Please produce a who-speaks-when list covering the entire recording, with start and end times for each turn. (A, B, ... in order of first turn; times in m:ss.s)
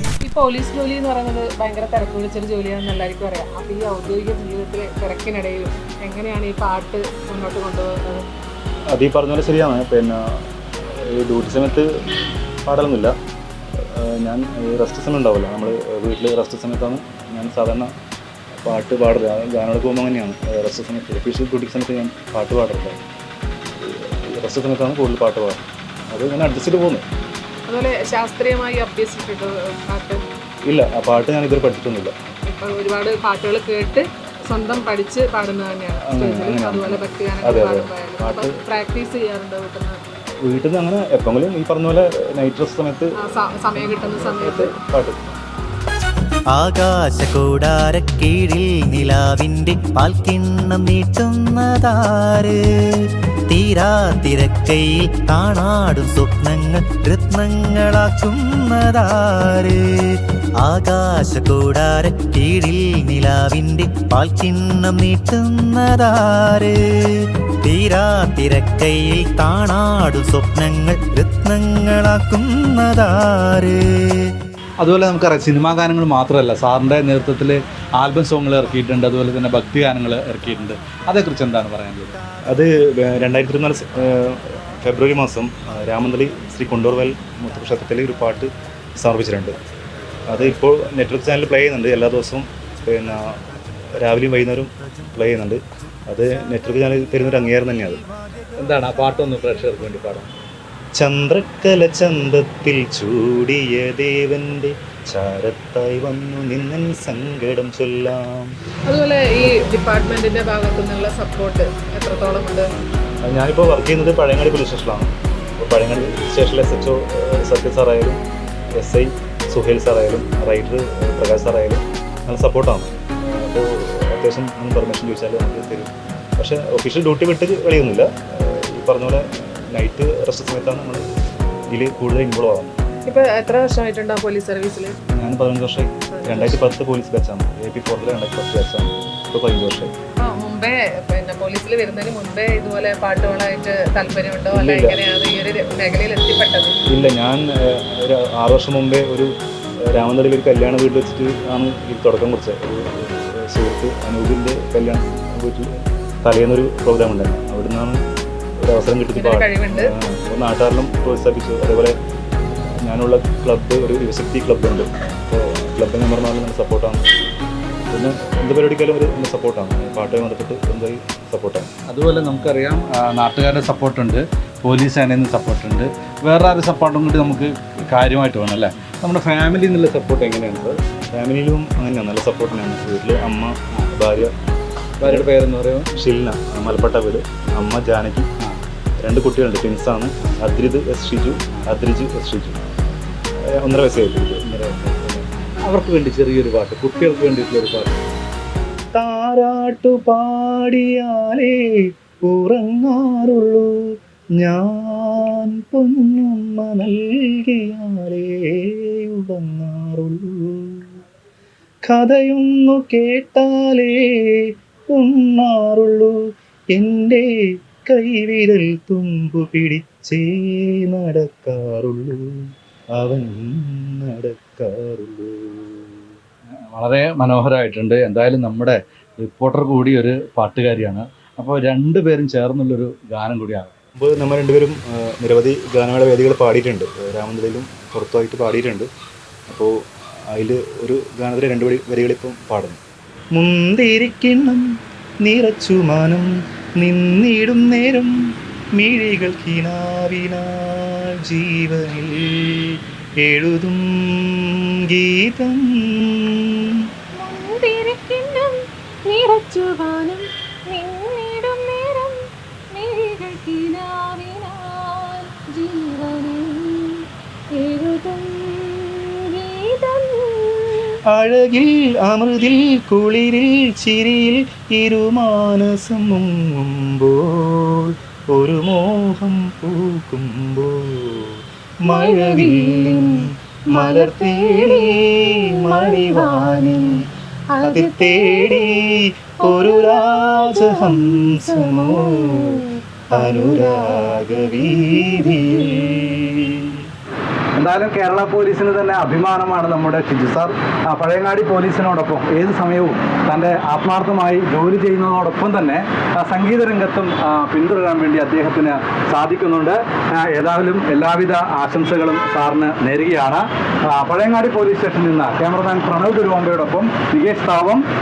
0:00.2-0:08.3 A
0:08.9-0:11.9 B
0:12.6-0:13.1 B
0:13.7-0:17.9 B
0:18.6-0:23.0 B
0:23.8-0:27.0 B
0:27.7-0:30.2 A
0:30.7-0:32.1 B
0:32.5-0:40.0 A
0:36.1-0:38.5 B
0:40.4-0:43.2 B
0:43.2-0:44.6 A
0:43.7-0:45.4 B
0:46.5-1:14.3 C
1:14.8-1:22.2 D
1:22.5-1:29.5 B
1:30.3-1:38.0 B
1:38.6-1:40.3 D
1:41.0-1:48.5 B
1:48.9-1:52.7 A
1:53.2-1:58.2 B
1:58.8-2:11.0 B
2:11.7-2:12.8 B
2:13.1-2:14.9 A
2:15.1-2:19.9 B
2:20.2-2:26.7 A
2:24.5-2:25.0 B
2:26.9-2:38.0 B
2:38.6-2:42.0 B
2:39.2-2:39.8 A
2:42.8-2:47.0 B
2:47.9-2:51.7 B
2:51.9-3:00.8 D
3:01.1-3:04.3 B
3:05.0-3:05.9 D
3:05.0-3:05.3 B
3:06.0-3:08.3 B
3:09.0-3:12.6 B
3:13.4-3:14.6 B
3:14.5-3:18.0 D
3:18.9-3:21.6 B
3:22.3-3:23.7 B
3:24.4-3:30.9 B
3:31.9-3:34.4 B
3:34.9-3:36.2 B
3:36.7-3:37.2 B
3:37.8-3:42.4 B
3:43.0-3:46.0 B
3:46.7-3:53.7 D
3:54.0-3:58.9 B
3:59.5-3:59.7 B
4:00.3-4:02.8 B
4:03.4-4:04.6 B
4:05.2-4:08.1 B
4:08.8-4:16.1 B
4:17.2-4:17.6 A
4:17.2-4:18.5 E
4:18.2-4:18.4 A
4:19.1-4:22.2 E
4:19.1-4:20.2 A
4:20.7-4:22.1 A
4:22.8-4:24.5 A
4:22.8-4:26.9 E
4:25.5-4:26.4 A
4:27.6-4:30.7 E
4:27.6-4:28.8 A
4:31.1-4:41.4 B
4:41.9-4:42.9 B
4:41.9-4:52.6 A
4:43.8-4:44.1 B
4:46.0-4:46.3 C
4:47.7-4:48.7 C
4:49.4-4:50.2 C
4:53.1-4:56.1 A
4:53.1-4:56.8 C
4:57.6-5:17.8 D